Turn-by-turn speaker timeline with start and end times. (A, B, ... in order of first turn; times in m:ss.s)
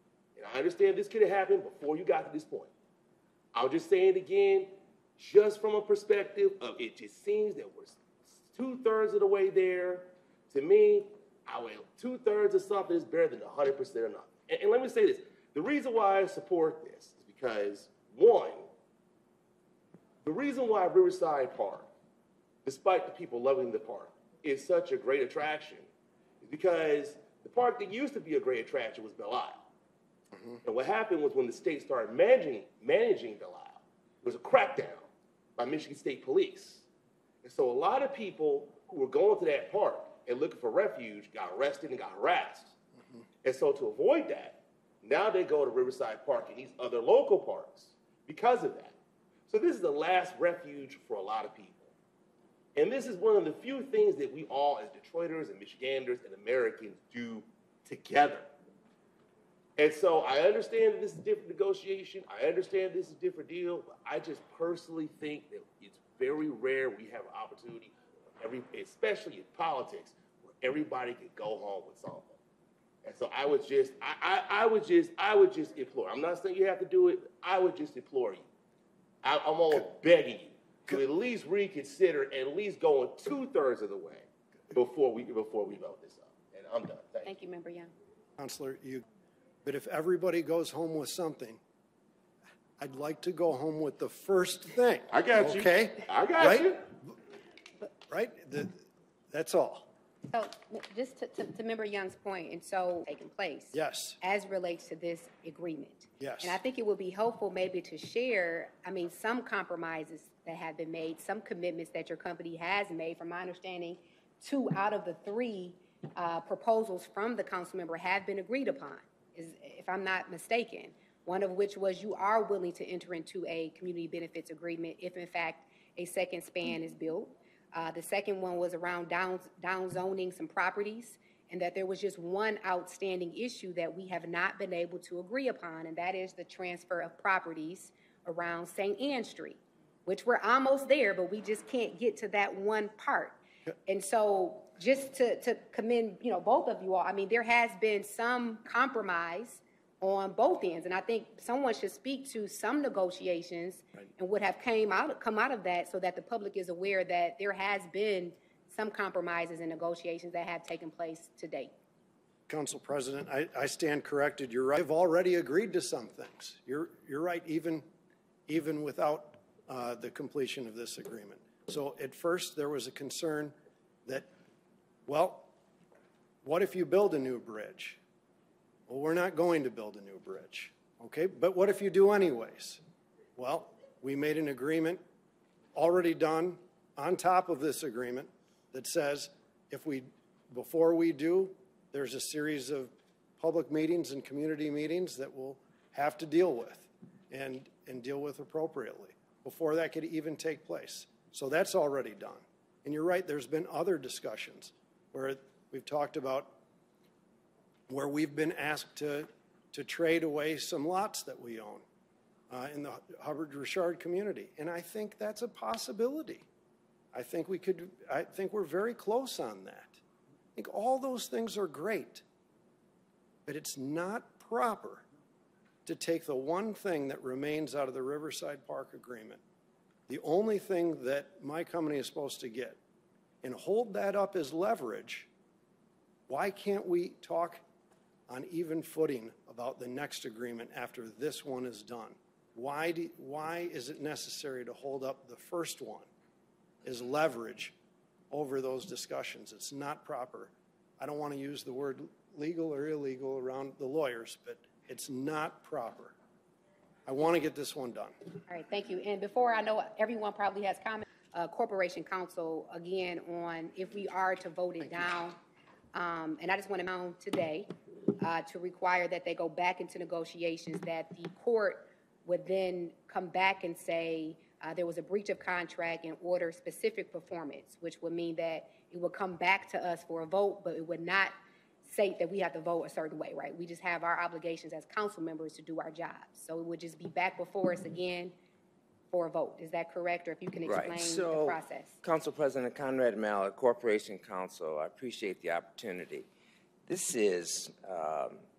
0:00.4-0:02.7 A
0:03.5-0:18.7 A
0:20.2-0:21.9 A
0:22.6-0:25.8 A
0:26.4-0:29.7 A
0:30.3-0:30.6 B
0:30.6-0:36.8 A
0:37.4-0:42.7 A
0:43.4-0:48.9 A
0:49.5-0:51.9 A
0:52.7-0:58.5 A
0:59.8-1:12.4 A
1:13.0-1:18.4 A
1:19.2-1:27.3 A
1:27.2-1:27.9 C
1:28.4-1:29.0 B
1:29.6-1:31.6 B
1:32.8-1:36.8 B
1:35.1-1:36.8 A
1:38.1-1:39.9 B
1:40.3-2:41.7 C
1:43.7-1:44.2 B
1:46.2-1:46.6 B
2:42.5-2:47.8 B
2:48.5-2:53.5 B
2:55.0-2:55.5 B
2:56.4-2:58.0 B
2:58.9-3:02.8 B
3:03.4-3:05.0 B
3:05.7-3:26.6 B
3:27.9-3:31.8 B
3:32.5-3:36.4 B
3:37.1-3:40.0 B
3:40.6-3:42.2 B
3:43.4-3:45.0 B
3:45.8-3:49.4 B
3:50.1-3:52.8 B
3:53.4-3:55.3 B
3:56.3-3:57.6 B
3:58.3-4:06.1 B
4:06.8-4:07.7 B
4:08.3-4:16.1 B
4:17.1-4:18.1 B
4:18.5-4:25.4 C
4:25.9-4:27.7 C
4:28.2-4:41.3 C
4:41.8-4:48.3 C
4:49.1-4:52.0 C
4:50.6-4:56.3 D
4:56.9-4:58.4 D